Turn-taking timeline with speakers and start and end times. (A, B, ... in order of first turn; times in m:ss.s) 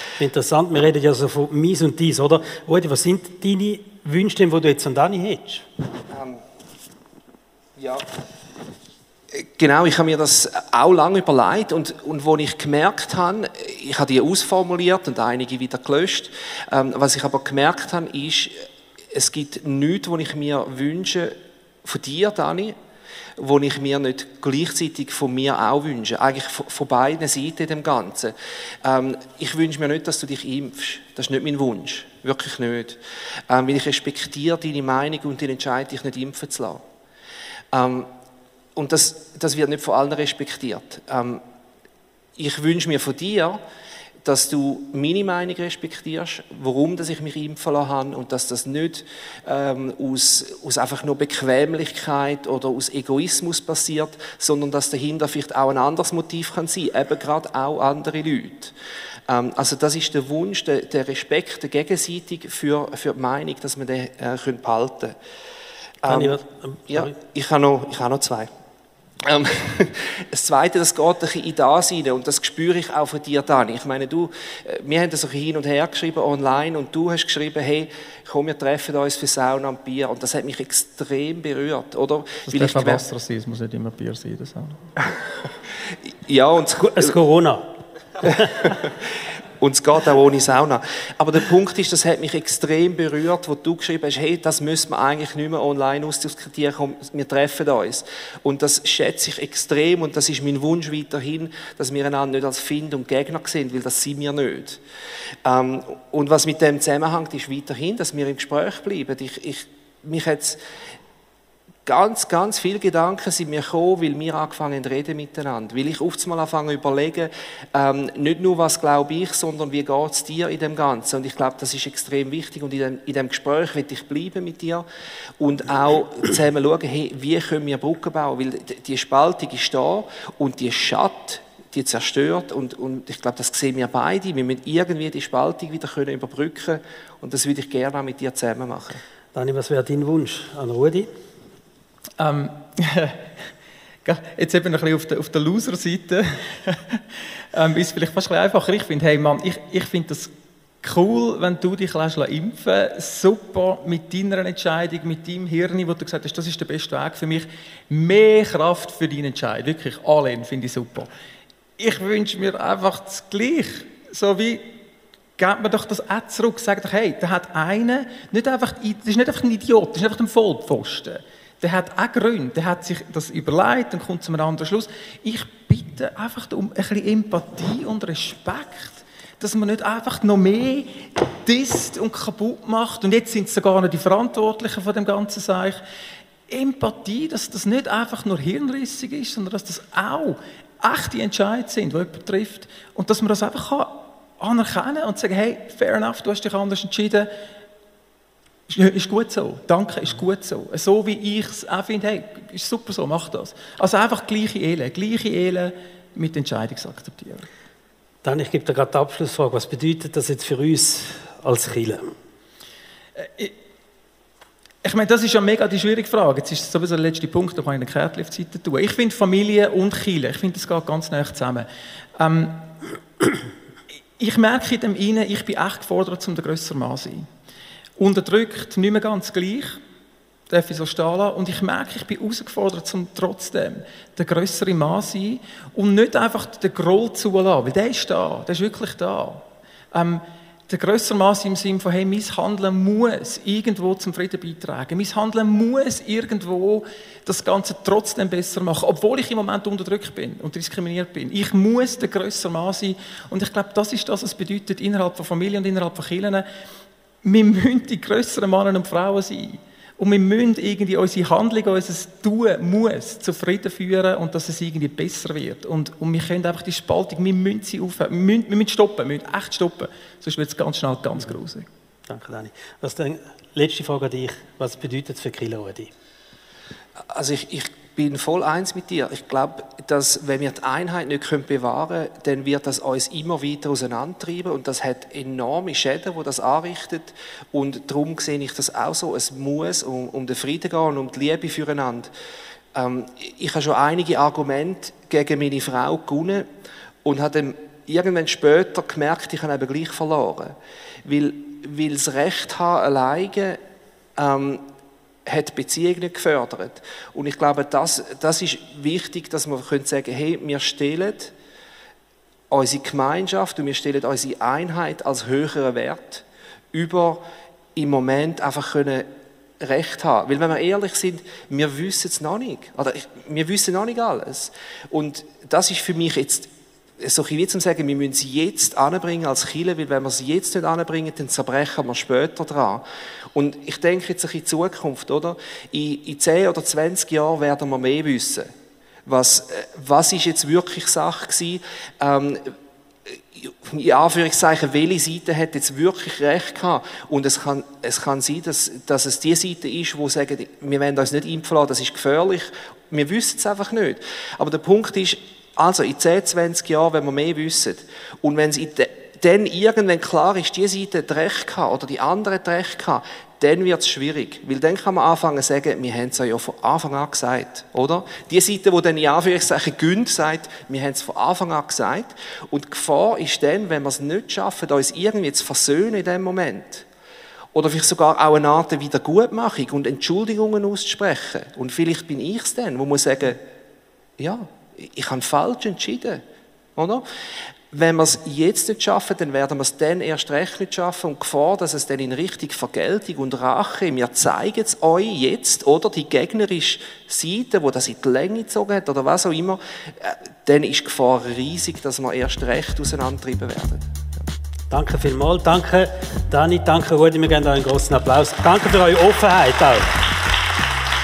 0:00.2-0:05.6 A
0:06.1-0:06.4 B
0:07.8-0:08.0 B
0:09.3-0:22.7 B
0:23.4-0:28.3 B
0:28.8-0:36.8 B
0:37.7-0:38.1 B
0:38.8-0:41.4 B
0:42.4-0:43.6 B
0:44.2-0:58.7 B
0:59.3-1:05.2 B
1:06.0-1:08.5 B
1:06.0-1:07.1 A
1:09.2-1:23.0 B
1:22.5-1:24.9 C
1:25.9-1:27.2 B
1:26.8-1:27.7 A
1:28.2-1:29.1 B
1:29.6-1:44.8 B
1:45.4-1:50.6 B
1:51.9-2:04.8 B
2:05.4-2:19.0 B
2:19.3-2:21.1 A
2:22.2-2:23.3 C
2:24.0-2:27.0 C
2:27.5-2:30.3 C
2:30.8-2:41.1 C
2:41.8-2:44.8 C
2:45.4-3:05.8 C
3:06.5-3:17.3 C
3:18.7-3:27.5 C
3:28.2-3:32.1 A
3:33.2-3:33.5 C
3:34.8-3:42.7 C
3:44.2-3:47.3 C
3:48.0-3:49.8 C
3:50.5-4:16.4 C
4:17.2-4:31.7 C
4:32.1-4:35.9 A
4:37.0-4:52.1 B
4:52.7-4:56.5 B
4:57.0-5:03.6 B
5:04.2-5:04.6 B
5:05.3-5:11.3 B
5:12.5-5:17.2 B
5:17.8-5:19.1 B
5:19.6-5:32.8 B
5:33.3-5:38.5 B
5:39.1-5:42.5 B
5:43.1-6:16.9 B
6:17.5-6:23.4 B
6:24.2-6:26.2 B
6:26.8-6:27.0 B
6:27.7-6:43.8 B
6:44.7-6:50.1 A